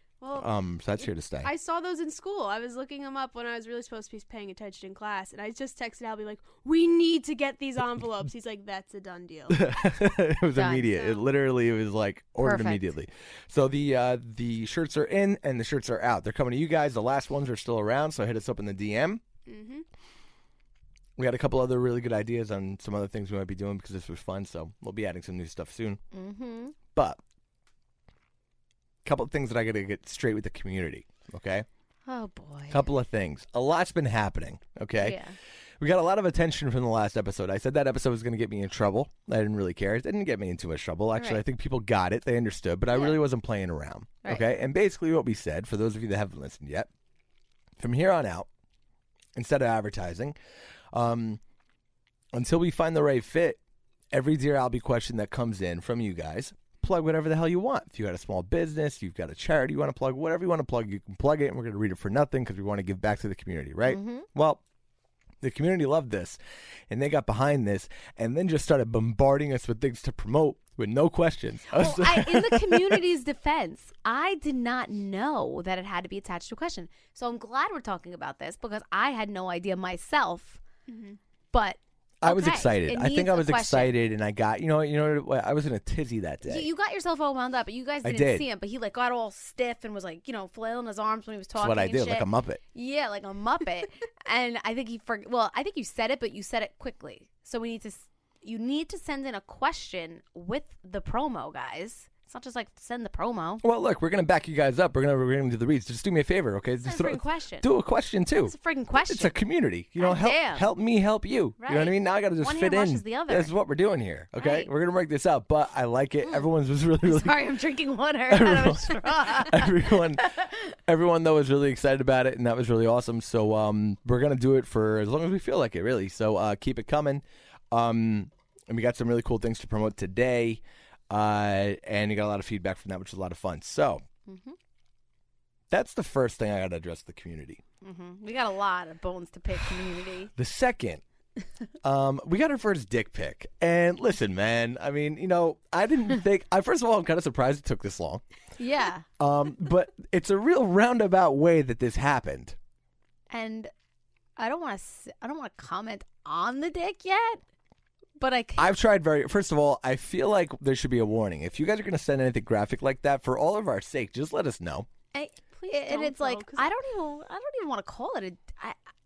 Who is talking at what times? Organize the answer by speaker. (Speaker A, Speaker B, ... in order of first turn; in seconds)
Speaker A: 0.2-0.5, 1.4-9.7, 10.9-11.3, 19.4-19.9, 80.9-81.2, 165.5-166.7
Speaker B: 0.3-1.5, 9.5-19.2, 21.2-26.0, 26.9-27.2, 29.0-31.6, 32.7-35.2, 35.8-46.9, 47.8-48.5, 49.3-50.4, 50.9-51.4, 52.3-53.6, 54.1-64.6, 65.4-66.4, 66.9-73.0, 82.2-86.7, 88.0-88.4, 91.6-92.6, 103.6-108.5, 109.0-117.5, 118.3-134.0, 135.7-137.6, 140.3-141.0, 141.8-148.2, 149.2-152.6, 158.6-164.9
Speaker C: 10.5-10.9, 12.4-12.9, 26.1-26.8, 32.1-32.8, 35.0-35.4, 41.1-41.4, 44.2-44.6, 63.9-64.3, 71.7-80.6, 81.5-83.9, 86.4-103.6, 106.8-107.7, 108.4-109.3, 110.0-110.7, 111.6-113.5, 114.4-114.7, 117.0-120.6, 134.3-134.5, 137.8-140.3, 148.6-149.1, 153.3-153.7, 154.4-157.4, 158.2-158.7, 165.1-168.8